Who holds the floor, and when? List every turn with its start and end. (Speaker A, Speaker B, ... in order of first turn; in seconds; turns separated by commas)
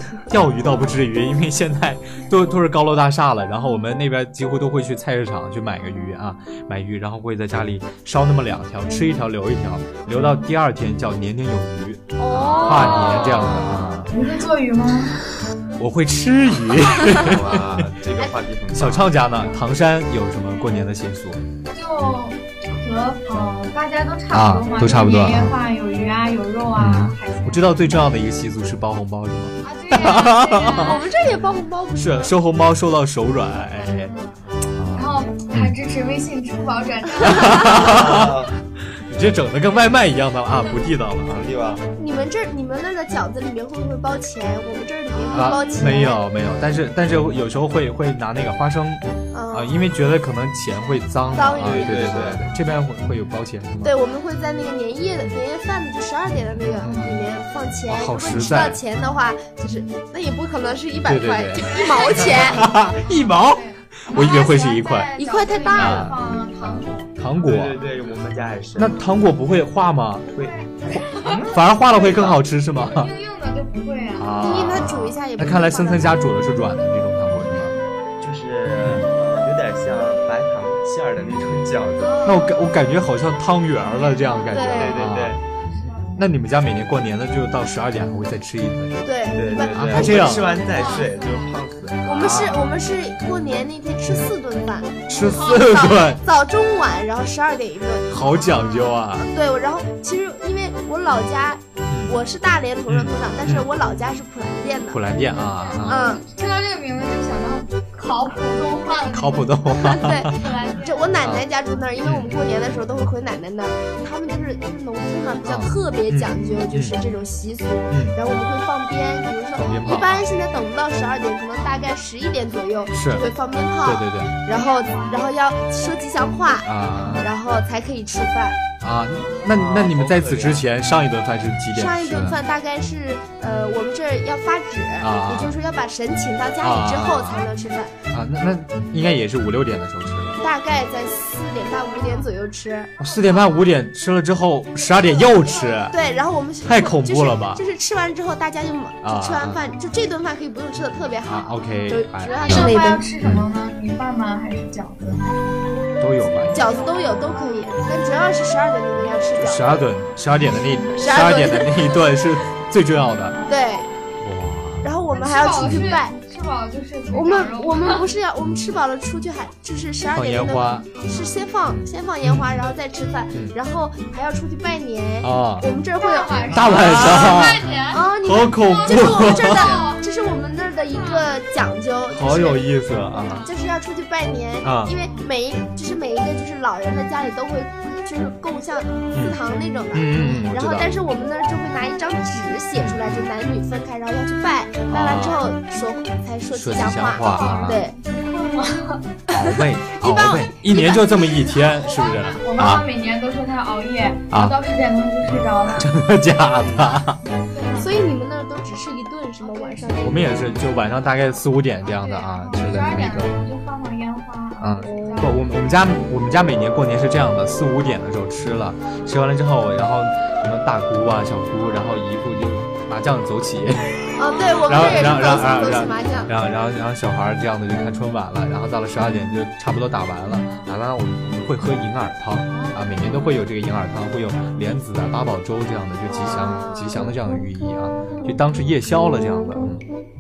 Speaker A: 0.3-14.1, Speaker B: 12.2-13.9, Speaker C: 12.7-15.2, Speaker D: 13.1-14.1, Speaker A: 15.8-17.9, Speaker D: 17.0-19.4, Speaker A: 18.7-21.4, Speaker C: 21.7-27.8, Speaker A: 24.3-25.6, Speaker A: 26.8-31.0, Speaker C: 29.6-31.1, Speaker B: 30.6-32.3, Speaker A: 32.0-34.1, Speaker C: 33.9-34.4, Speaker A: 34.7-35.8, Speaker C: 34.9-38.0, Speaker A: 37.2-41.5, Speaker D: 37.5-38.5, Speaker D: 41.3-41.9, Speaker B: 42.0-46.2, Speaker C: 45.1-45.7, Speaker A: 45.3-54.0, Speaker B: 49.3-49.8, Speaker B: 51.3-52.4, Speaker D: 51.6-52.4, Speaker B: 53.8-62.7, Speaker A: 56.3-57.2, Speaker C: 56.8-57.3, Speaker A: 57.9-58.8, Speaker C: 58.4-58.6, Speaker A: 61.0-65.1, Speaker C: 61.5-67.1, Speaker B: 65.2-66.1, Speaker A: 65.7-67.8, Speaker D: 67.4-69.1, Speaker A: 68.8-70.3, Speaker C: 70.3-71.6, Speaker D: 70.4-72.4, Speaker A: 70.9-73.1, Speaker C: 72.8-74.8, Speaker A: 74.2-77.7, Speaker B: 74.4-76.2, Speaker D: 78.2-82.3, Speaker A: 78.8-79.1, Speaker C: 82.0-82.6, Speaker A: 82.2-85.4, Speaker C: 83.9-84.8, Speaker B: 84.5-85.1, Speaker D: 84.7-85.4, Speaker C: 85.5-86.3, Speaker A: 86.1-90.6, Speaker B: 89.0-90.3, Speaker D: 89.3-92.7, Speaker C: 90.4-91.6, Speaker B: 92.0-98.2, Speaker A: 92.1-92.7, Speaker A: 95.1-96.2, Speaker C: 95.2-96.0, Speaker A: 98.1-99.3, Speaker C: 98.4-98.9, Speaker B: 99.2-105.0, Speaker A: 101.9-102.2, Speaker A: 102.9-103.7, Speaker A: 104.9-106.0, Speaker C: 105.2-109.6, Speaker B: 105.9-106.2, Speaker A: 109.1-110.5, Speaker B: 109.7-128.6, Speaker C: 110.3-111.3, Speaker A: 112.0-112.4, Speaker A: 115.4-117.0, Speaker A: 117.9-118.2, Speaker A: 119.6-120.3, Speaker C: 122.7-123.3, Speaker A: 122.9-123.3, Speaker A: 123.8-124.3, Speaker C: 124.5-125.3, Speaker A: 126.6-127.3, Speaker A: 128.8-132.4, Speaker D: 129.5-130.6, Speaker B: 131.7-137.9, Speaker A: 135.0-135.6, Speaker A: 136.6-137.5, Speaker A: 138.1-140.4, Speaker B: 140.4-143.0, Speaker A: 143.0-146.0, Speaker C: 143.0-143.7, Speaker C: 144.9-145.9, Speaker B: 145.9-153.0, Speaker A: 146.7-147.6, Speaker A: 149.0-149.6, Speaker A: 151.2-153.5, Speaker C: 152.4-155.5, Speaker A: 156.0-156.7, Speaker C: 156.2-158.1, Speaker B: 156.5-159.7, Speaker A: 159.4-163.4, Speaker B: 161.0-161.9, Speaker C: 163.3-163.6, Speaker B: 163.5-163.9, Speaker A: 164.2-164.9, Speaker B: 164.8-166.2, Speaker C: 165.1-168.1, Speaker B: 167.1-182.7, Speaker A: 170.1-170.9, Speaker C: 170.9-171.4, Speaker A: 171.7-172.6, Speaker A: 175.2-175.7, Speaker C: 176.0-180.1, Speaker A: 176.5-179.8, Speaker C: 181.0-181.2, Speaker A: 182.1-183.4, Speaker C: 183.1-183.5, Speaker B: 183.3-197.9, Speaker A: 184.6-184.9, Speaker C: 184.9-185.3, Speaker C: 188.9-189.3, Speaker A: 189.2-189.4, Speaker A: 189.9-190.9, Speaker A: 192.7-193.2, Speaker A: 194.9-195.4, Speaker A: 196.5-197.8, Speaker C: 197.2-199.1, Speaker A: 199.3-202.8, Speaker B: 199.3-201.4, Speaker C: 200.0-205.9, Speaker A: 204.3-204.6, Speaker A: 205.8-207.2, Speaker C: 207.5-207.9, Speaker B: 207.8-210.5, Speaker C: 209.4-210.3, Speaker A: 210.0-213.3, Speaker C: 211.9-215.5, Speaker A: 214.6-224.0, Speaker B: 214.8-215.3, Speaker B: 224.2-226.3, Speaker C: 224.3-224.6, Speaker A: 224.6-239.8, Speaker C: 230.4-230.7, Speaker C: 232.5-232.8, Speaker B: 236.1-237.1, Speaker C: 236.2-236.6